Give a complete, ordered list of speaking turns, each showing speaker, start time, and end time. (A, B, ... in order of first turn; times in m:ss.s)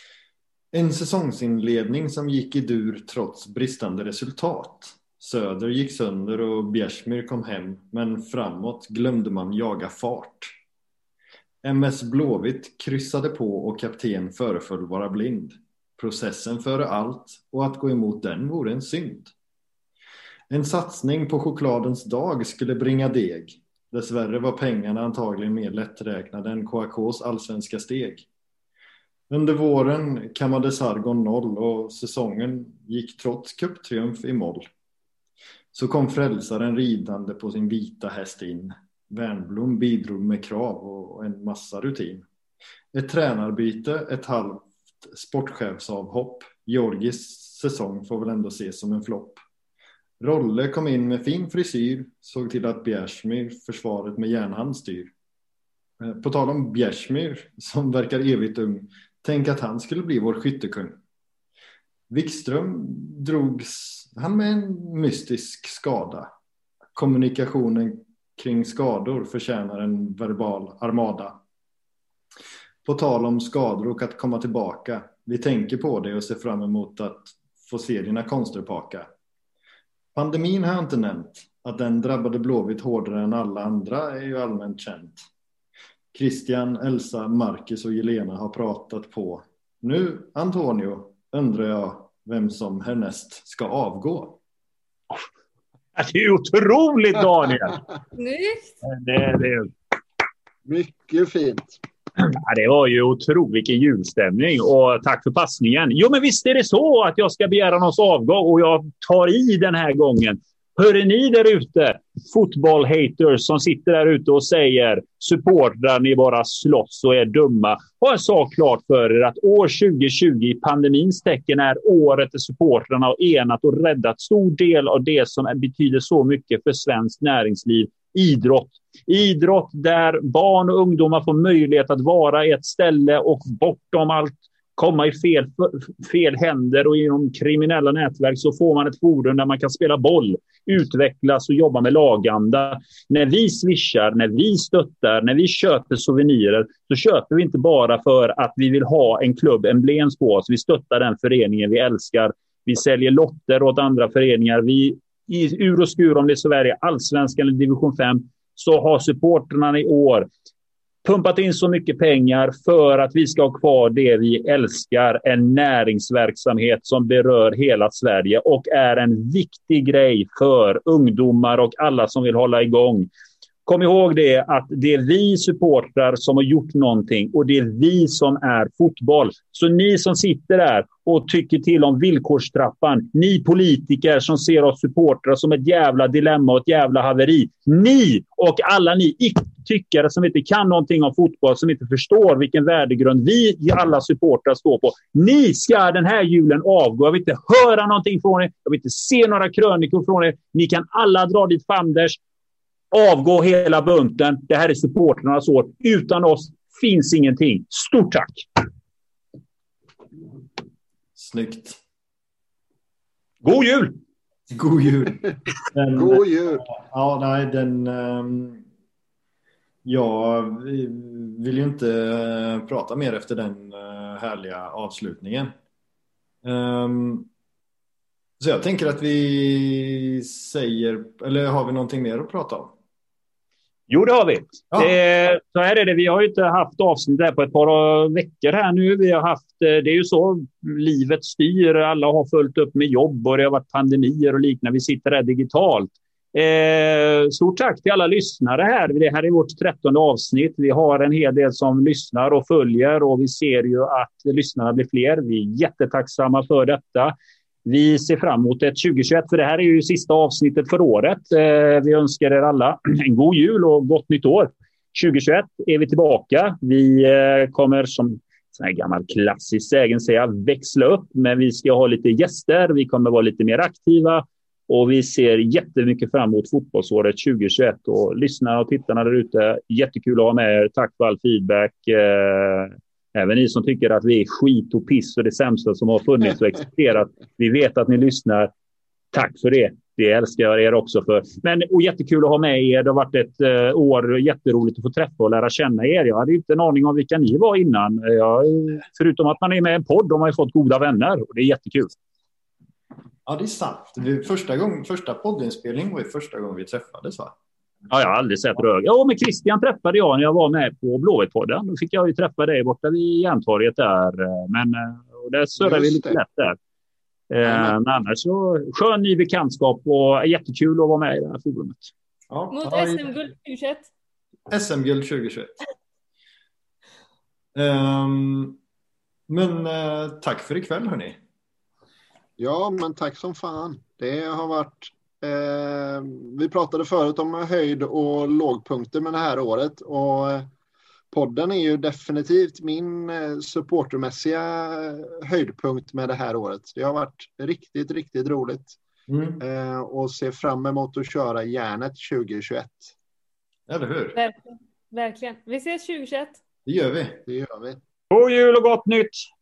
0:00.7-0:10.5 A
0:11.6-0:19.3 A
0:20.5-0:28.3 A
0:29.3-0:34.7 A
0:35.7-0:42.2 A
0:42.9-0:49.4 A
0:50.2-0:55.1 A
0:56.0-1:01.0 A
1:02.1-1:06.3 A
1:06.9-1:11.4 A
1:12.8-1:19.1 A
1:20.1-1:25.3 A
1:26.1-1:34.4 A
1:36.0-1:37.8 B
1:38.1-1:38.7 C
1:38.8-1:39.7 B
1:40.6-1:41.8 D
1:42.2-2:40.3 B
2:41.0-2:53.1 B
2:53.6-3:22.2 B
3:22.9-3:28.5 B
3:31.2-3:31.8 A
3:33.4-3:33.9 B
3:34.5-3:38.6 A
3:36.0-3:36.6 D
3:39.8-3:45.5 A
3:46.4-3:47.3 A
3:48.4-3:52.7 A
3:53.9-4:17.1 B
4:17.6-4:48.5 B
4:49.1-5:02.0 B
5:03.3-5:07.3 A
5:07.9-5:16.6 B
5:15.6-5:16.2 D
5:17.3-5:21.9 B
5:17.4-5:17.7 D
5:22.3-5:23.1 A
5:22.5-5:23.9 C
5:24.5-5:25.6 A
5:27.6-5:28.6 A
5:29.3-5:31.2 A
5:32.4-5:40.5 D
5:41.1-5:48.8 D
5:49.1-5:49.4 A
5:49.4-5:52.9 D
5:53.7-5:54.2 A
5:54.1-5:56.4 C
5:56.6-5:57.3 A
5:57.3-5:57.8 D
5:58.1-5:59.3 B